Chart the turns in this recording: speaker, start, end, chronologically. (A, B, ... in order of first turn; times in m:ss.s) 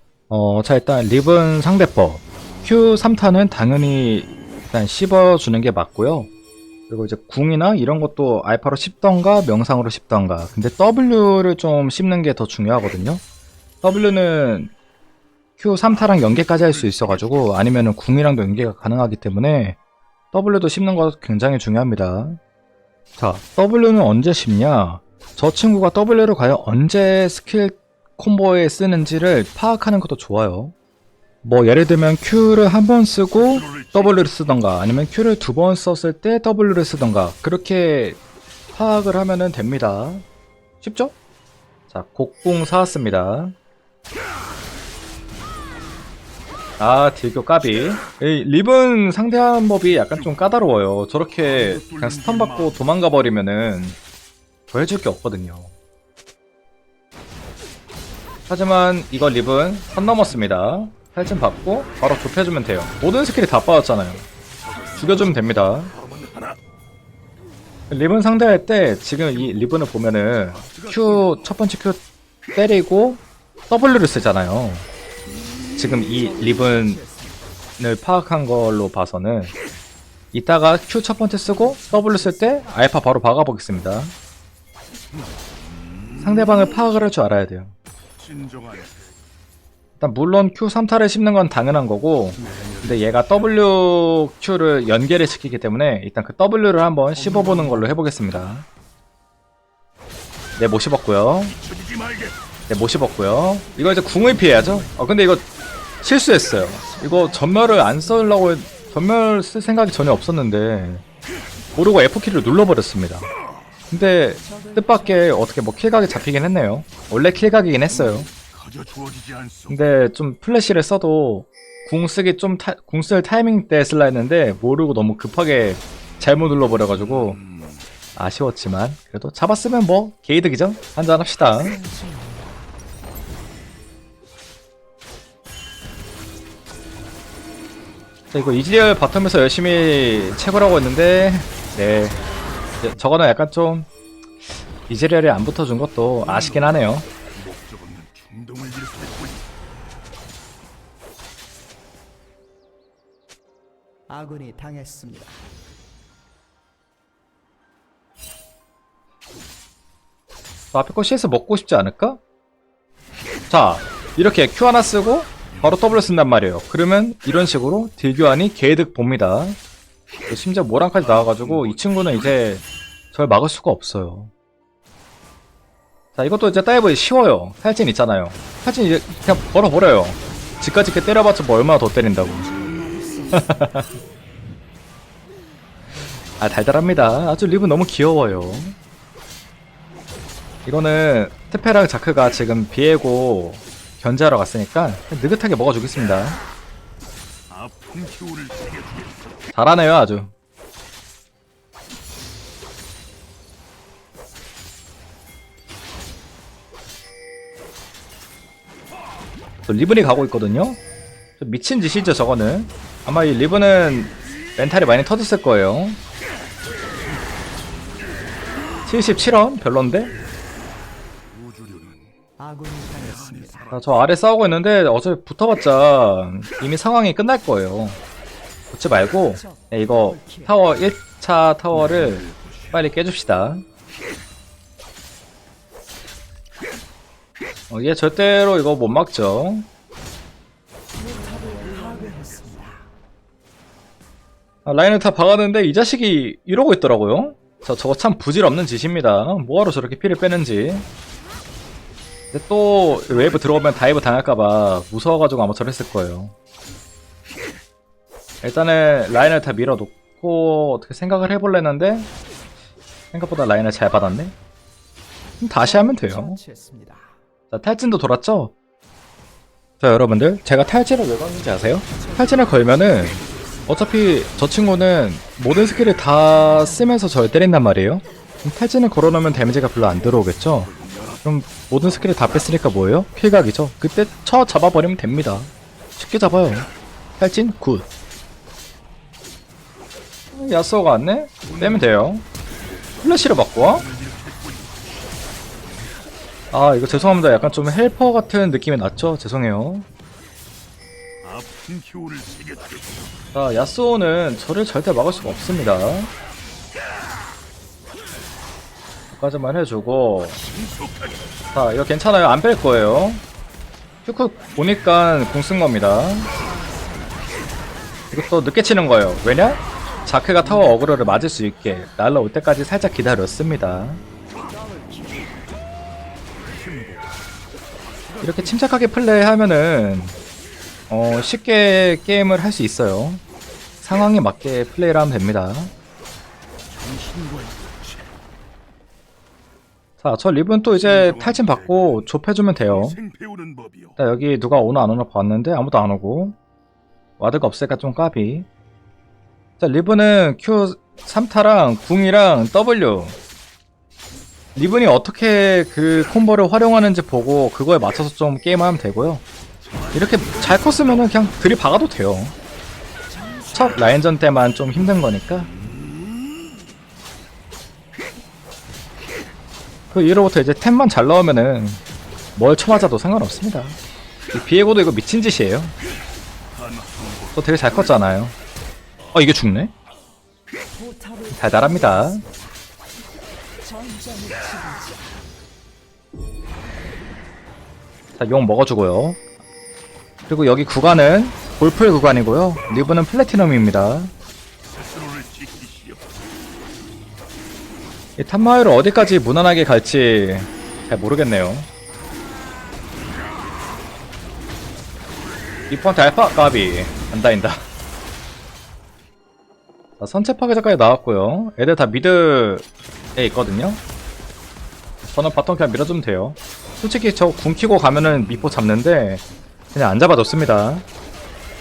0:00.3-0:06.3 A
0:06.9-0:13.2 A
0:13.8-0:14.7 A
0:15.6-0:19.8 A
0:15.8-0:17.6 B
0:20.3-0:22.4 A
0:23.2-0:30.7 A
0:31.4-0:38.2 A
0:33.5-0:34.2 B
0:38.7-0:40.2 A
0:40.8-0:41.1 A
0:41.9-0:43.5 A
0:46.8-0:54.0 A
0:50.1-0:50.5 B
0:51.7-0:52.8 B
0:54.7-0:55.7 A
0:58.5-1:04.2 A
1:04.9-1:05.9 A
1:06.0-1:06.6 B
1:07.9-1:12.0 A
1:10.6-1:11.4 B
1:12.5-1:14.8 A
1:15.8-1:17.0 A
1:16.2-1:17.4 C
1:17.8-1:19.5 A
1:20.3-1:24.1 A
1:21.5-1:22.9 C
1:26.2-1:27.7 A
1:28.2-1:29.0 B
1:30.0-1:38.6 A
1:32.4-1:33.4 B
1:37.1-1:38.1 C
1:40.6-1:41.6 A
1:41.6-1:42.3 B
1:42.7-1:45.4 A
1:44.5-1:44.9 C
1:46.0-1:51.0 A
1:46.5-1:48.4 C
1:51.8-1:53.3 A
1:53.9-1:58.3 A
1:54.4-1:55.3 C
1:58.4-1:59.7 B
1:59.7-2:07.4 A
2:07.4-2:07.8 B
2:08.1-2:11.8 A
2:11.6-2:12.6 C
2:18.3-2:22.2 A
2:22.8-2:23.9 A
2:24.7-2:27.0 A
2:27.4-2:29.4 B
2:34.1-2:35.4 C
2:40.7-2:42.2 A
2:43.5-2:49.6 A
2:50.3-2:54.3 A
2:51.1-2:52.1 B
2:56.2-3:02.5 A
3:02.3-3:03.9 C
3:03.3-3:03.8 A
3:06.4-3:08.7 A
3:10.6-3:16.4 A
3:17.5-3:19.3 B
3:19.5-3:20.3 A
3:29.6-3:30.8 A
3:31.4-3:36.0 A
3:37.7-3:38.1 C
3:38.8-3:40.1 A
3:41.3-3:42.1 B
3:42.4-3:43.8 C
3:43.2-3:43.6 B
3:43.7-3:48.0 A
3:48.7-3:53.6 A
3:49.3-3:50.5 C
3:51.9-3:52.5 B
3:57.7-3:59.6 A
4:00.9-4:02.9 C
4:01.8-4:02.6 B
4:04.6-4:10.8 A
4:12.3-4:16.3 A
4:18.4-4:22.1 A
4:23.1-4:24.3 A
4:25.4-4:26.4 A
4:25.6-4:27.2 C
4:27.5-4:28.5 A
4:29.8-4:40.7 A
4:31.9-4:33.8 C
4:36.3-4:37.0 C
4:40.8-4:41.2 C
4:41.2-4:46.7 A
4:47.2-4:47.9 A
4:50.3-4:52.2 A
4:53.0-4:53.8 A
4:53.9-4:54.7 B
4:56.5-4:59.8 A
5:01.2-5:02.8 B
5:03.3-5:06.1 A
5:09.1-5:10.4 A
5:10.7-5:11.2 B
5:11.5-5:13.2 A
5:14.0-5:16.3 A
5:16.3-5:17.4 C
5:18.1-5:24.0 A
5:20.6-5:21.3 C
5:24.3-5:25.4 C
5:26.5-5:26.8 C
5:26.8-5:27.0 B
5:28.1-5:28.6 B
5:28.2-5:30.2 A
5:30.9-5:33.2 A
5:33.8-5:35.7 A
5:36.7-5:38.1 B
5:40.0-5:43.0 A
5:40.8-5:42.0 B
5:42.9-5:43.9 B
5:44.0-5:46.3 A
5:47.2-5:48.5 A
5:49.6-5:53.1 A
5:54.6-5:59.2 A
5:59.9-6:02.3 A
6:03.1-6:03.8 C
6:03.5-6:05.5 A
6:09.9-6:11.8 A
6:12.4-6:13.8 A
6:14.3-6:15.7 A
6:16.7-6:17.2 B
6:17.3-6:18.3 A
6:19.1-6:19.7 A
6:20.7-6:22.5 C
6:21.3-6:22.2 A
6:23.6-6:25.2 C
6:28.2-6:29.2 A
6:30.3-6:34.1 A
6:34.7-6:36.0 B
6:38.2-6:41.7 A
6:45.7-6:47.6 A
6:50.0-6:53.8 A
6:55.0-6:59.2 A
6:59.7-7:00.8 A